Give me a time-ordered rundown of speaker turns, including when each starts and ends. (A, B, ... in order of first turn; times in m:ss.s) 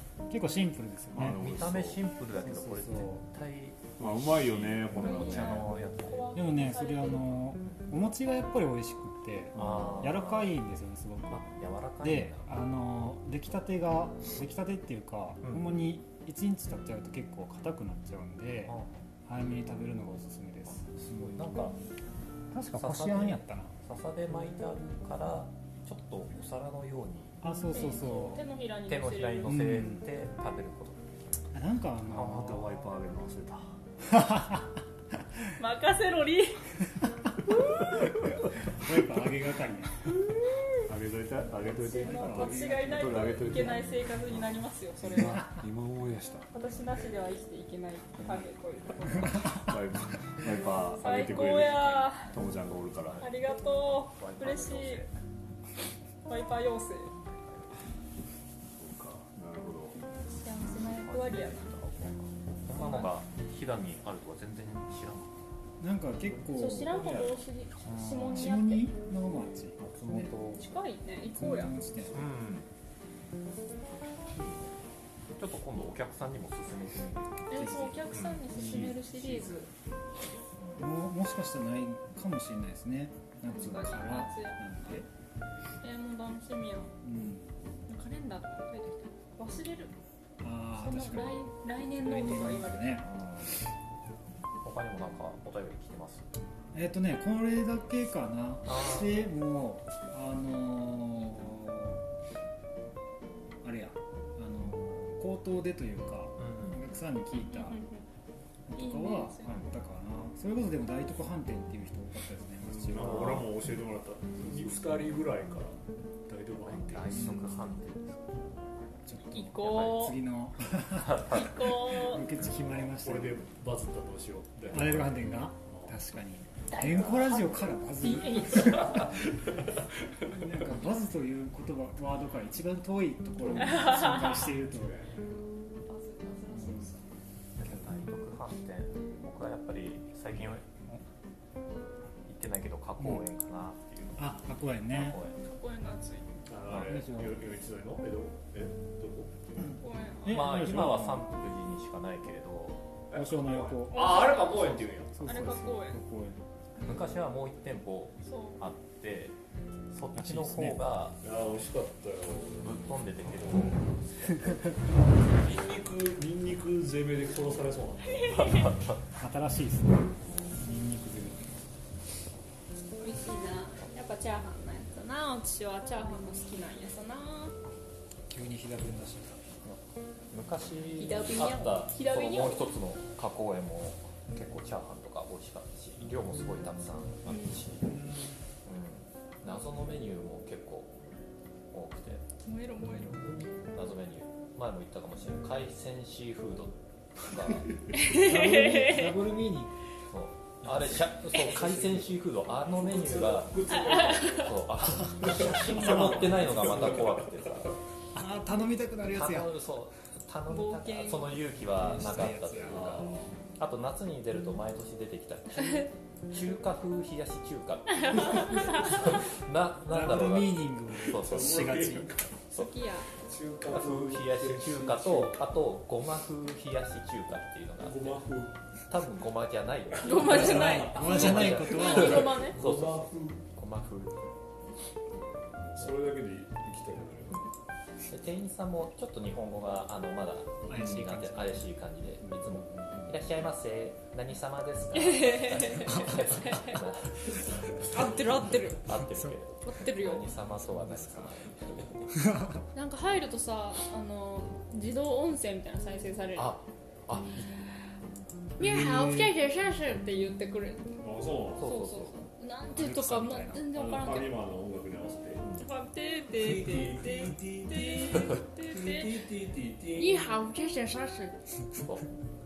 0:00.3-0:01.4 A
0:01.1-0:02.0 B
0:01.2-0:06.3 C
0:02.4-0:03.2 A
0:04.0-0:05.6 B
0:05.0-0:07.4 D
0:06.3-0:11.5 A
0:09.5-0:10.6 C
0:11.3-0:12.5 C
0:12.0-0:18.8 A
0:15.4-0:15.7 C
0:18.6-0:19.0 C
0:19.2-0:21.4 A
0:20.7-0:21.8 C
0:22.5-0:23.7 A
0:22.7-0:27.4 C
0:27.4-0:28.4 A
0:27.7-0:29.6 D
0:28.9-0:31.1 C
0:29.5-0:30.0 A
0:31.5-0:32.6 A
0:32.1-0:33.0 C
0:32.2-0:33.7 B
0:34.1-0:34.8 A
0:35.6-0:36.6 D
0:38.6-0:40.1 A
0:40.9-0:43.9 B
0:41.7-0:45.4 D
0:42.0-0:43.5 A
0:45.0-0:46.5 B
0:46.5-0:49.5 D
0:49.5-0:53.2 B
0:50.9-0:52.3 D
0:53.0-0:53.3 C
0:53.2-0:55.0 D
0:54.1-0:55.1 C
0:56.2-0:57.1 D
0:57.2-0:57.8 C
0:58.7-1:00.0 B
1:00.3-1:01.8 D
1:00.6-1:05.4 C
1:02.7-1:03.1 D
1:05.8-1:07.3 A
1:06.5-1:08.9 D
1:07.9-1:10.3 A
1:09.8-1:10.6 C
1:10.6-1:11.8 D
1:11.4-1:12.2 A
1:12.1-1:12.7 C
1:14.3-1:14.8 C
1:15.4-1:17.5 C
1:17.5-1:19.7 D
1:17.5-1:19.5 A
1:18.1-1:18.4 C
1:20.6-1:20.8 C
1:20.8-1:25.1 A
1:23.5-1:24.6 D
1:25.8-1:26.9 D
1:27.0-1:27.5 A
1:27.9-1:29.9 D
1:30.4-1:31.5 A
1:30.8-1:33.0 D
1:32.0-1:33.1 A
1:33.0-1:33.6 C
1:34.6-1:36.2 C
1:36.7-1:42.0 A
1:38.6-1:39.2 C
1:43.6-1:47.8 A
1:46.4-1:46.8 C
1:47.5-1:48.0 D
1:48.7-1:53.5 A
1:48.8-1:49.6 D
1:52.7-1:55.8 B
1:56.3-1:57.3 B
1:56.6-1:58.5 C
1:57.1-1:57.5 A
1:59.0-2:03.4 A
1:59.3-2:00.2 D
1:59.6-2:00.1 C
2:01.0-2:01.6 C
2:01.3-2:02.2 D
2:02.9-2:06.0 B
2:04.7-2:09.2 A
2:06.7-2:07.4 D
2:08.0-2:09.1 D
2:10.2-2:15.2 A
2:13.6-2:14.5 D
2:14.7-2:15.1 B
2:15.8-2:17.0 D
2:16.5-2:16.9 A
2:17.6-2:20.7 C
2:22.2-2:24.4 C
2:23.0-2:23.2 A
2:24.2-2:25.2 A
2:24.9-2:25.4 C
2:25.4-2:26.3 D
2:26.5-2:29.3 B
2:26.7-2:27.4 A
2:29.8-2:30.5 D
2:30.2-2:31.3 A
2:30.2-2:32.8 C
2:33.1-2:35.4 B
2:33.1-2:34.2 A
2:33.9-2:36.0 D
2:35.2-2:36.4 A
2:36.8-2:39.3 C
2:38.2-2:38.6 D
2:39.9-2:41.2 C
2:40.2-2:40.8 A
2:41.2-2:42.7 B
2:42.6-2:44.7 C
2:45.4-2:48.3 B
2:48.2-2:48.7 D
2:48.2-2:49.0 C
2:49.2-2:51.5 A
2:53.0-2:57.5 D
2:58.3-2:59.5 A
3:00.3-3:07.9 C
3:01.0-3:02.7 D
3:08.6-3:10.9 C
3:11.7-3:12.2 C
3:12.4-3:13.4 D
3:13.7-3:17.7 C
3:17.9-3:19.2 D
3:18.1-3:19.7 A
3:20.1-3:27.8 C
3:21.5-3:22.1 B
3:22.7-3:24.5 B
3:23.9-3:24.5 D
3:25.2-3:27.7 B
3:25.8-3:26.5 A
3:28.1-3:29.5 A
3:29.1-3:41.9 C
3:30.5-3:31.4 D
3:31.8-3:33.1 A
3:32.7-3:33.3 B
3:38.0-3:39.1 D
3:39.9-3:42.1 A
3:41.1-3:42.3 B
3:42.5-3:43.1 D
3:43.1-3:45.4 B
3:43.7-3:48.2 C
3:47.8-3:48.5 B
3:48.9-3:54.2 C
3:50.0-3:53.4 B
3:50.0-3:52.6 D
3:50.2-3:52.4 A
3:55.7-3:57.5 B
3:58.1-4:12.2 C
4:00.7-4:01.6 A
4:02.7-4:03.1 B
4:04.9-4:06.8 D
4:07.9-4:09.0 D
4:09.1-4:09.3 A
4:09.6-4:10.3 D
4:10.7-4:11.3 A
4:12.2-4:12.6 A
4:12.7-4:16.6 D
4:16.4-4:17.5 C
4:18.6-4:21.0 D
4:18.6-4:19.3 A
4:21.0-4:21.7 B
4:21.6-4:22.2 C
4:21.6-4:24.4 D
4:22.8-4:23.7 A
4:23.7-4:25.5 B
4:25.6-4:29.1 D
4:26.3-4:30.3 B
4:30.0-4:31.4 D
4:31.8-4:32.1 C